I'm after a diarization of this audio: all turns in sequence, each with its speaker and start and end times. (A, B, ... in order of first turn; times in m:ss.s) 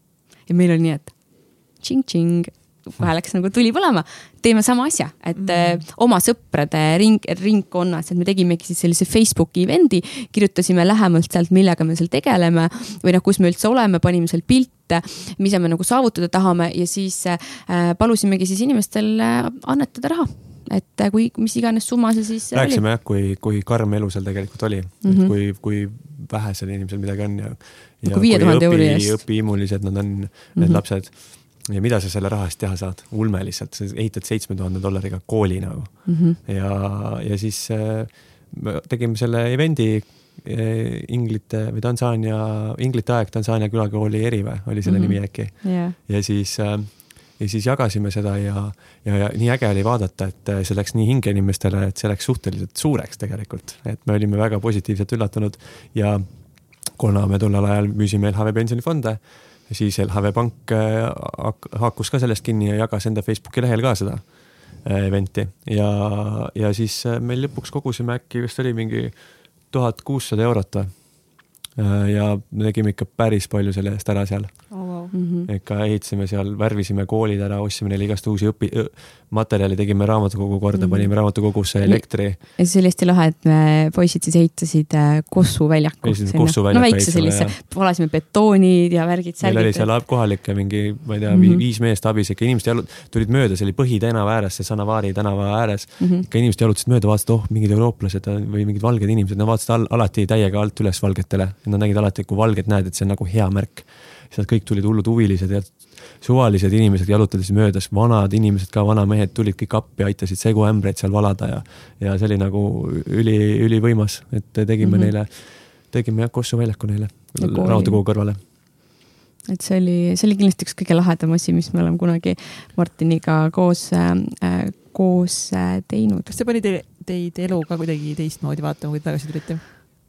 0:00.4-0:22.8 A
0:05.4-0:05.8 B
0:22.5-1:14.9 C
0:25.0-0:25.3 A
0:28.0-0:29.2 A
0:30.5-0:30.8 A
0:36.0-0:36.4 A
0:44.8-0:46.0 A
1:14.7-1:15.1 B
1:15.1-1:15.5 A
1:15.4-1:22.4 C
1:20.7-1:29.9 A
1:26.0-1:27.6 C
1:29.4-1:58.4 C
1:31.3-1:31.6 A
1:36.0-1:36.3 A
1:54.8-1:55.1 A
1:57.4-1:58.6 A
1:59.5-2:06.3 A
2:06.3-2:09.6 B